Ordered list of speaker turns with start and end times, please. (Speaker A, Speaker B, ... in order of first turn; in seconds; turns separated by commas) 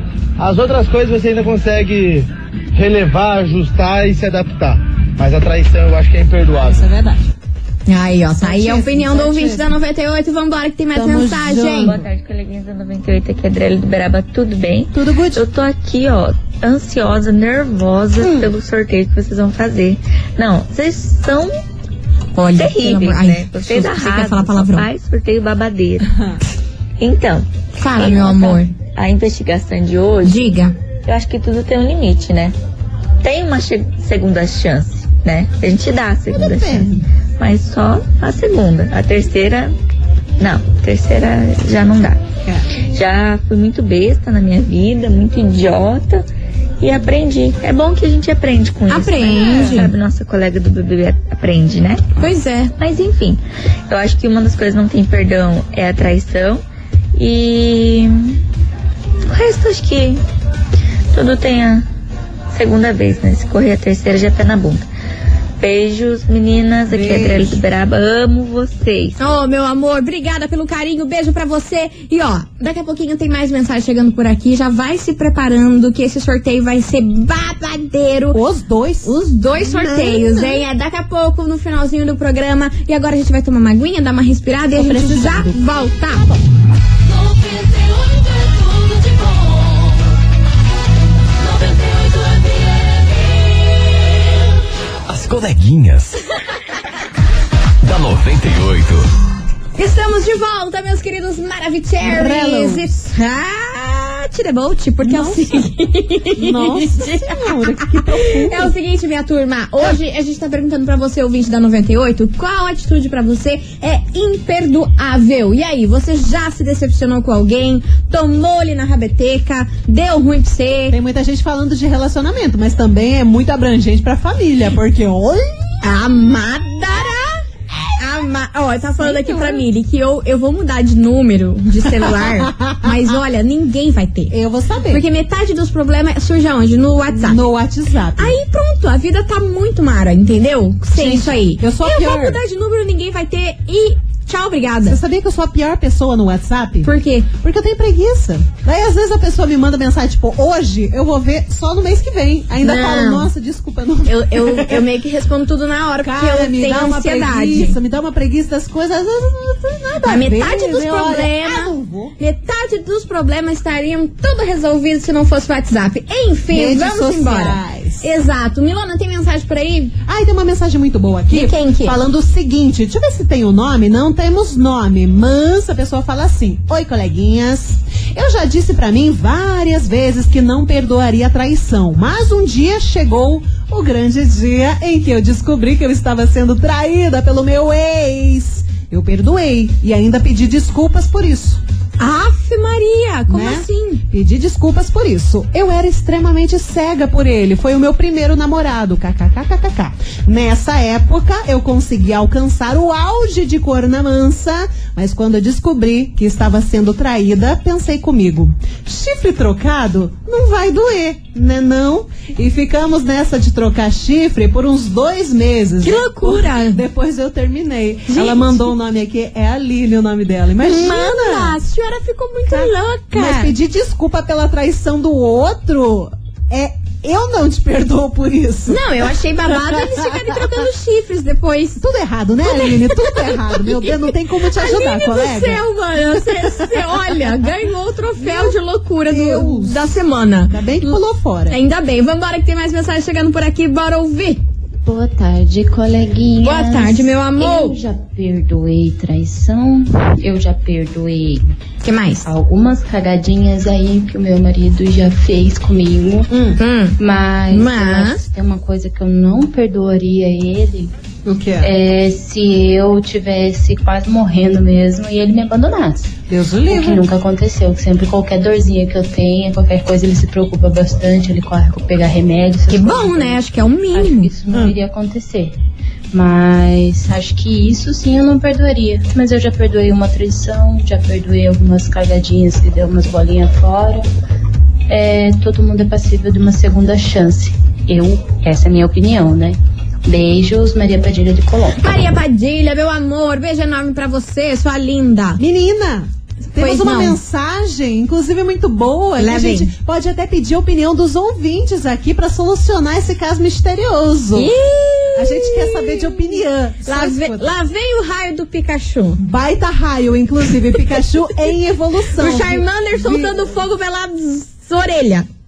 Speaker A: 0.4-6.9, Speaker B: 6.6-7.3, Speaker C: 7.9-11.9, Speaker B: 8.4-9.7, Speaker B: 10.9-12.1, Speaker D: 11.8-21.5, Speaker B: 14.9-15.4, Speaker B: 18.2-18.5, Speaker C: 22.3-24.9, Speaker D: 22.6-26.1, Speaker D: 27.0-30.4, Speaker C: 27.8-28.7, Speaker C: 30.2-30.7, Speaker D: 31.1-32.5, Speaker D: 33.2-39.7, Speaker B: 36.3-37.1, Speaker D: 40.4-42.2, Speaker D: 42.9-46.2, Speaker D: 46.8-52.2, Speaker C: 48.9-49.9, Speaker B: 49.1-49.8, Speaker C: 52.2-52.7, Speaker D: 52.8-56.6, Speaker D: 57.1-58.4, Speaker D: 59.3-60.2, Speaker D: 61.1-61.8, Speaker D: 62.5-64.8, Speaker D: 65.6-69.2, Speaker B: 66.9-67.6, Speaker C: 69.2-78.4, Speaker B: 78.3-80.6, Speaker C: 79.0-86.3, Speaker B: 84.7-85.7, Speaker E: 95.1-96.2, Speaker E: 97.8-99.1, Speaker C: 99.8-121.0, Speaker B: 102.0-102.9, Speaker B: 105.0-105.7, Speaker B: 106.3-108.7, Speaker B: 120.9-125.8, Speaker C: 125.8-127.4, Speaker C: 128.0-134.3, Speaker B: 129.0-129.6, Speaker B: 132.0-132.9, Speaker B: 134.3-135.0, Speaker C: 134.9-137.4, Speaker B: 137.1-138.4, Speaker C: 138.2-145.0, Speaker B: 140.9-142.4, Speaker B: 144.8-154.9, Speaker C: 146.8-147.3, Speaker C: 152.6-153.3, Speaker C: 154.1-157.8, Speaker B: 156.0-162.1, Speaker C: 160.0-169.9, Speaker B: 166.5-168.1, Speaker B: 170.1-191.6, Speaker C: 171.3-172.0, Speaker C: 192.0-194.0, Speaker B: 193.3-221.6, Speaker C: 215.8-216.8, Speaker C: 218.1-218.7, Speaker C: 220.6-223.5, Speaker B: 222.5-228.9, Speaker C: 228.7-231.8, Speaker B: 229.5-230.4, Speaker B: 231.8-237.4, Speaker C: 232.4-234.0, Speaker C: 234.5-241.0, Speaker B: 238.2-241.6, Speaker C: 241.5-244.4, Speaker F: 244.8-251.5, Speaker C: 246.4-247.8, Speaker C: 251.8-252.3, Speaker F: 252.2-256.3, Speaker B: 256.3-256.6, Speaker C: 256.6-257.0, Speaker F: 257.0-260.9, Speaker C: 257.5-258.2, Speaker B: 261.2-261.7, Speaker F: 261.6-266.1, Speaker B: 266.3-267.0, Speaker F: 266.7-275.6, Speaker C: 272.7-274.3, Speaker F: 276.1-284.1, Speaker F: 284.9-291.9, Speaker C: 291.8-295.4, Speaker B: 295.4-304.5, Speaker C: 296.5-297.2, Speaker C: 299.2-299.7, Speaker C: 304.3-309.2, Speaker B: 305.1-307.5, Speaker B: 309.2-313.5, Speaker C: 312.2-315.3